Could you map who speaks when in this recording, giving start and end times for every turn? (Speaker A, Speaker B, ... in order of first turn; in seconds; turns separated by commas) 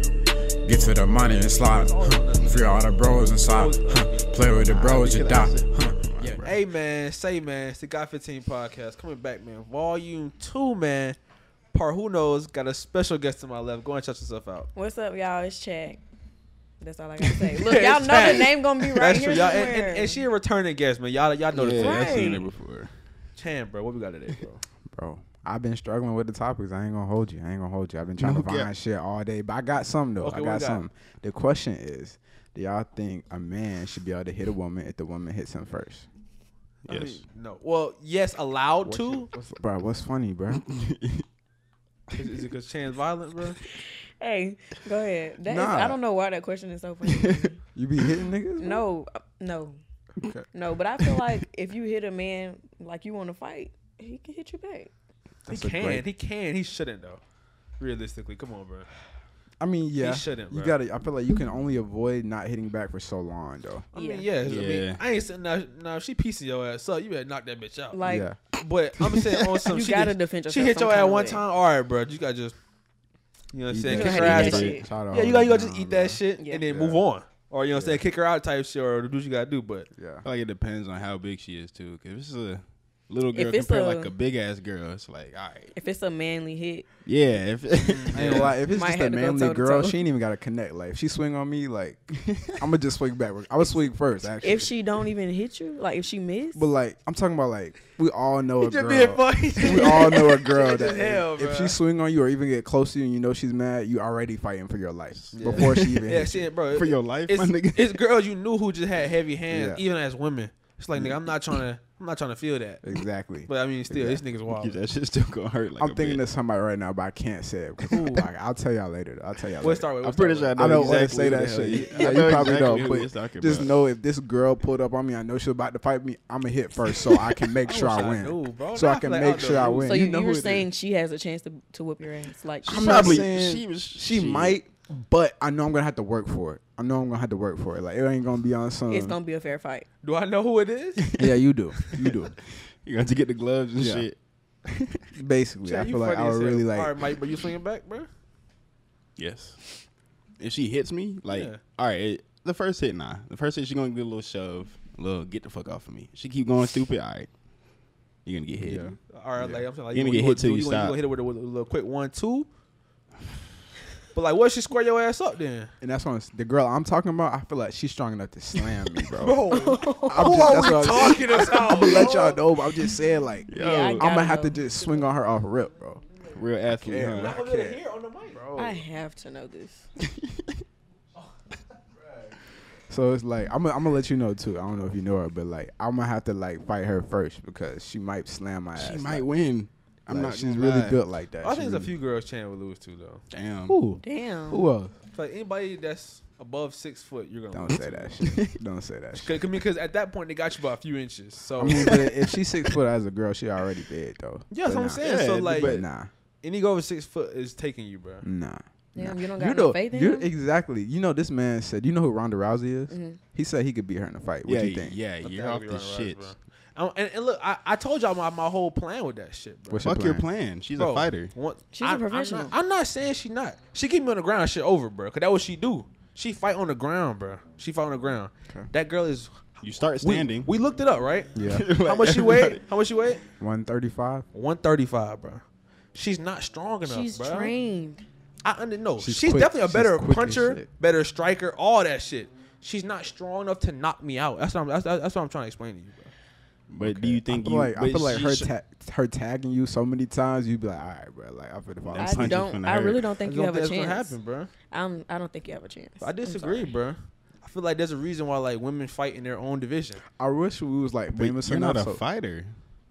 Speaker A: 0.6-6.3, Speaker B: 1.6-4.5, Speaker C: 4.6-6.6, Speaker B: 6.4-11.2, Speaker B: 11.7-14.7, Speaker D: 14.7-16.0, Speaker D: 16.8-20.2, Speaker B: 17.5-22.5, Speaker C: 21.5-22.9, Speaker D: 21.7-22.4, Speaker B: 23.4-24.6, Speaker E: 24.9-36.1, Speaker C: 28.2-28.7, Speaker B: 30.2-30.8, Speaker C: 36.9-37.2, Speaker B: 36.9-39.3, Speaker E: 38.8-40.6, Speaker C: 40.5-41.2, Speaker B: 42.1-43.6, Speaker D: 44.2-47.6, Speaker E: 45.4-46.0, Speaker C: 47.0-47.5, Speaker E: 47.7-48.8, Speaker D: 48.6-49.8, Speaker E: 50.2-50.5, Speaker D: 50.5-54.9, Speaker B: 55.5-57.2, Speaker E: 55.5-56.0, Speaker B: 57.8-58.9, Speaker E: 59.6-63.9, Speaker B: 60.0-60.8, Speaker B: 63.9-68.0, Speaker D: 63.9-64.3, Speaker C: 64.4-65.0, Speaker D: 67.9-68.3, Speaker E: 68.0-68.4, Speaker B: 68.6-72.5, Speaker C: 69.1-69.5, Speaker D: 69.7-71.4, Speaker B: 73.5-79.9, Speaker E: 73.7-77.0, Speaker D: 73.8-74.9, Speaker C: 74.1-74.9, Speaker D: 76.4-76.6, Speaker E: 77.7-78.0, Speaker E: 79.9-80.2, Speaker C: 80.2-85.7, Speaker D: 83.3-84.1, Speaker D: 85.7-86.8, Speaker C: 87.0-88.5, Speaker B: 87.8-88.5, Speaker E: 88.1-94.7, Speaker D: 88.7-90.0, Speaker D: 94.4-96.6, Speaker E: 96.5-106.5, Speaker B: 98.6-101.8, Speaker C: 105.2-106.0, Speaker B: 105.3-112.8, Speaker C: 106.7-108.0, Speaker E: 109.5-109.8, Speaker E: 112.8-114.2, Speaker B: 113.5-114.8, Speaker C: 114.5-116.2, Speaker E: 115.8-119.9, Speaker B: 117.9-118.3, Speaker B: 119.6-121.7, Speaker C: 120.0-123.7, Speaker E: 120.5-130.7, Speaker B: 127.6-129.9, Speaker D: 129.8-133.2, Speaker E: 132.6-139.2, Speaker C: 132.7-134.6, Speaker D: 138.9-139.8, Speaker B: 140.0-141.0, Speaker C: 141.0-141.3, Speaker E: 141.2-142.3, Speaker C: 141.9-145.1, Speaker E: 143.8-144.1, Speaker E: 145.2-147.0, Speaker B: 145.6-148.1, Speaker C: 149.2-149.6, Speaker C: 150.4-157.3, Speaker B: 151.3-151.6, Speaker C: 158.2-158.9, Speaker E: 158.6-159.6, Speaker B: 159.1-162.5, Speaker C: 159.9-161.0, Speaker B: 164.1-165.7, Speaker E: 165.8-169.4, Speaker B: 169.2-172.4, Speaker D: 169.5-172.1, Speaker E: 170.1-176.0, Speaker C: 173.5-174.1, Speaker D: 173.6-174.6, Speaker C: 176.3-177.4, Speaker E: 176.7-178.8, Speaker B: 176.9-178.4, Speaker D: 178.6-179.8, Speaker C: 180.1-180.6, Speaker E: 182.9-189.3, Speaker C: 188.8-191.0, Speaker E: 190.1-191.9, Speaker B: 191.4-193.2, Speaker C: 193.3-193.8, Speaker E: 193.7-194.9, Speaker D: 194.0-194.7, Speaker B: 195.1-198.3, Speaker E: 197.5-199.4, Speaker C: 198.2-198.6, Speaker B: 199.1-202.0, Speaker E: 201.6-206.1, Speaker B: 204.5-205.8, Speaker C: 205.0-205.8, Speaker B: 206.4-208.2, Speaker E: 208.2-215.0, Speaker D: 208.9-210.3, Speaker D: 212.9-213.2, Speaker C: 214.4-216.3, Speaker B: 215.2-219.9, Speaker E: 219.7-220.3, Speaker C: 219.8-221.3, Speaker B: 220.8-233.2, Speaker D: 221.7-222.5, Speaker C: 229.6-230.5, Speaker E: 231.3-231.7, Speaker C: 231.5-232.6, Speaker E: 233.4-234.3, Speaker B: 234.3-237.5, Speaker D: 236.8-238.0, Speaker B: 238.4-246.1, Speaker E: 239.0-240.7, Speaker C: 246.7-248.5, Speaker E: 246.8-252.4, Speaker C: 251.9-253.0, Speaker D: 252.0-254.2, Speaker B: 253.2-254.5, Speaker D: 254.7-256.7, Speaker B: 256.0-260.0, Speaker E: 260.1-262.0, Speaker C: 261.1-262.6